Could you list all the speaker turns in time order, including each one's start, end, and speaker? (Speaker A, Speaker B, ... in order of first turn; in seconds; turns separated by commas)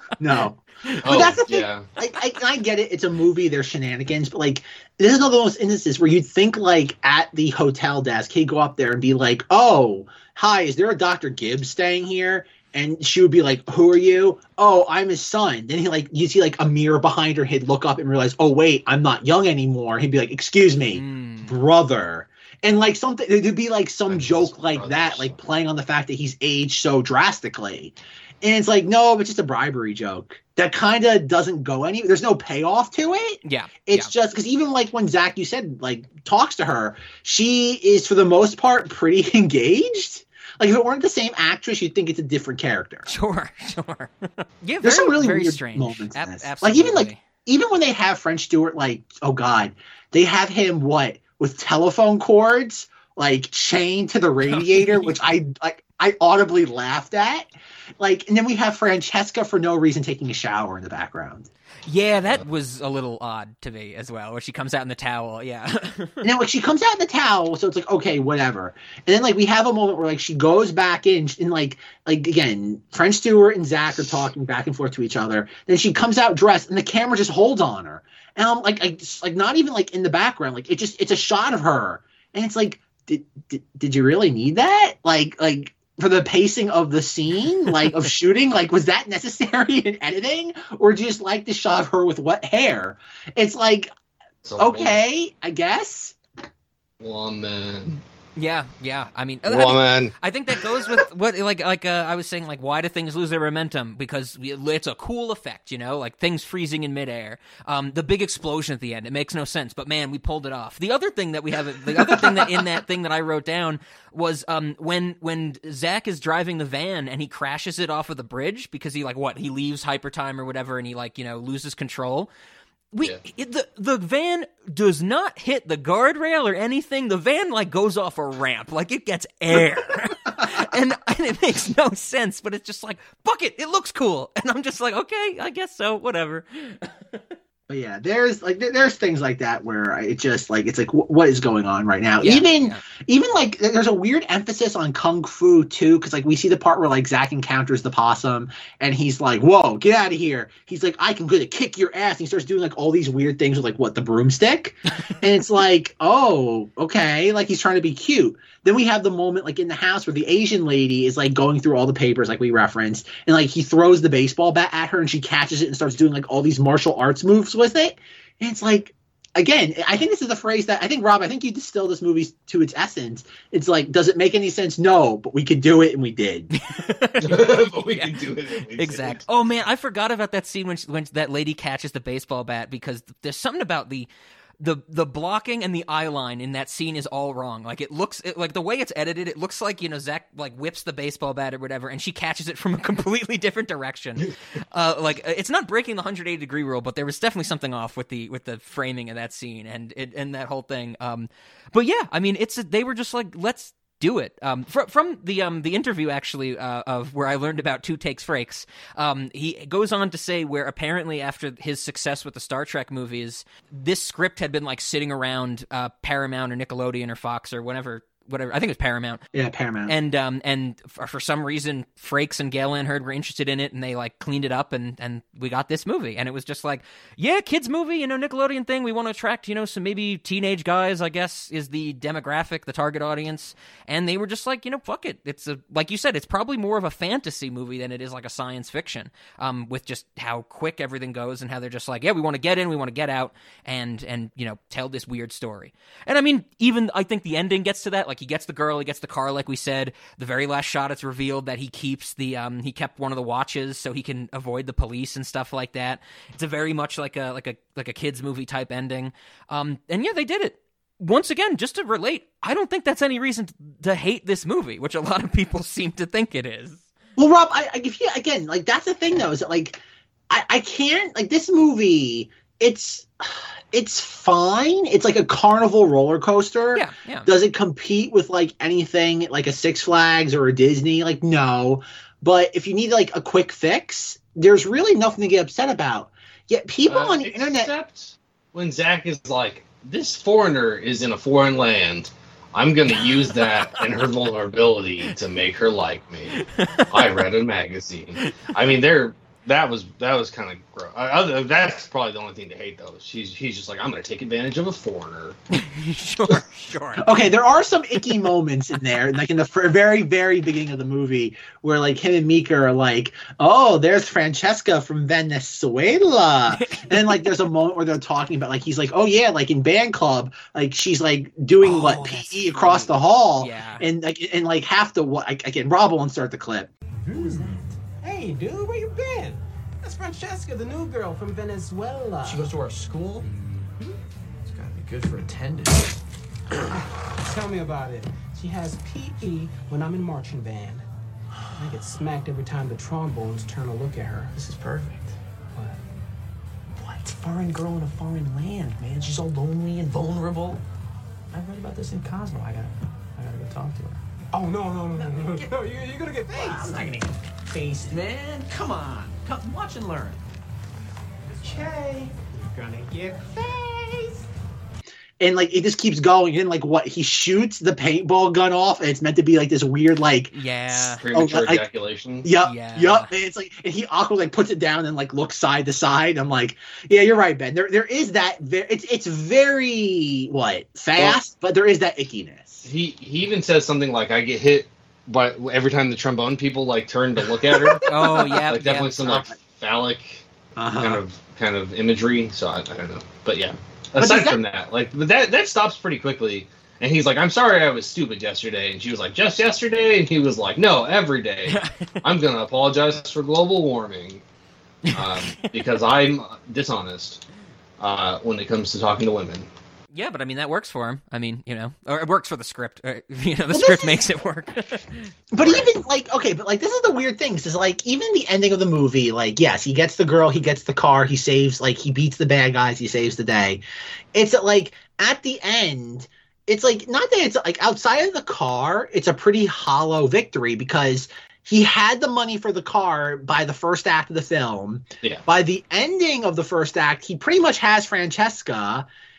Speaker A: 0.2-43.1, Speaker B: 1.0-1.9, Speaker C: 20.9-21.5, Speaker B: 24.1-25.4, Speaker C: 33.4-34.1, Speaker C: 43.1-47.2, Speaker A: 44.8-61.5, Speaker C: 54.4-55.1, Speaker C: 61.9-66.2, Speaker A: 66.2-93.9, Speaker B: 94.4-95.0, Speaker A: 94.6-96.2, Speaker B: 97.0-98.0, Speaker C: 98.4-122.3, Speaker B: 99.5-100.1, Speaker C: 122.9-137.3, Speaker A: 137.7-176.5, Speaker C: 142.2-142.8, Speaker C: 176.5-178.2, Speaker B: 177.2-179.2, Speaker C: 178.7-184.1, Speaker C: 184.6-219.2, Speaker A: 219.3-219.9, Speaker C: 219.9-266.8, Speaker A: 267.2-287.7, Speaker C: 276.7-277.3, Speaker B: 286.9-305.4, Speaker C: 296.5-297.0, Speaker C: 298.2-298.5, Speaker C: 305.5-307.1, Speaker A: 307.0-326.7, Speaker C: 316.5-317.3, Speaker C: 321.6-323.9, Speaker D: 327.1-332.7, Speaker E: 327.1-327.6, Speaker E: 332.2-333.3, Speaker E: 334.5-335.9, Speaker D: 336.7-340.8, Speaker D: 341.6-344.4, Speaker E: 344.3-345.1, Speaker D: 345.5-345.8, Speaker E: 346.8-350.6, Speaker E: 351.3-354.0, Speaker D: 354.3-357.0, Speaker E: 354.9-355.6, Speaker E: 356.3-360.2, Speaker D: 361.3-362.1, Speaker E: 361.4-361.7, Speaker E: 362.3-363.8, Speaker A: 365.2-371.6, Speaker C: 370.3-371.0, Speaker B: 371.0-372.2, Speaker A: 372.2-382.7, Speaker C: 372.4-373.1, Speaker B: 382.6-390.2, Speaker A: 387.4-388.1, Speaker C: 387.9-389.0, Speaker A: 389.0-389.3, Speaker A: 390.6-391.0, Speaker B: 390.8-404.2, Speaker A: 394.0-394.4, Speaker C: 401.5-402.0, Speaker C: 404.9-405.5, Speaker B: 404.9-407.2, Speaker B: 407.8-409.5, Speaker C: 409.9-414.9, Speaker A: 413.5-414.0, Speaker A: 415.3-423.6, Speaker B: 415.4-415.7, Speaker A: 424.1-438.9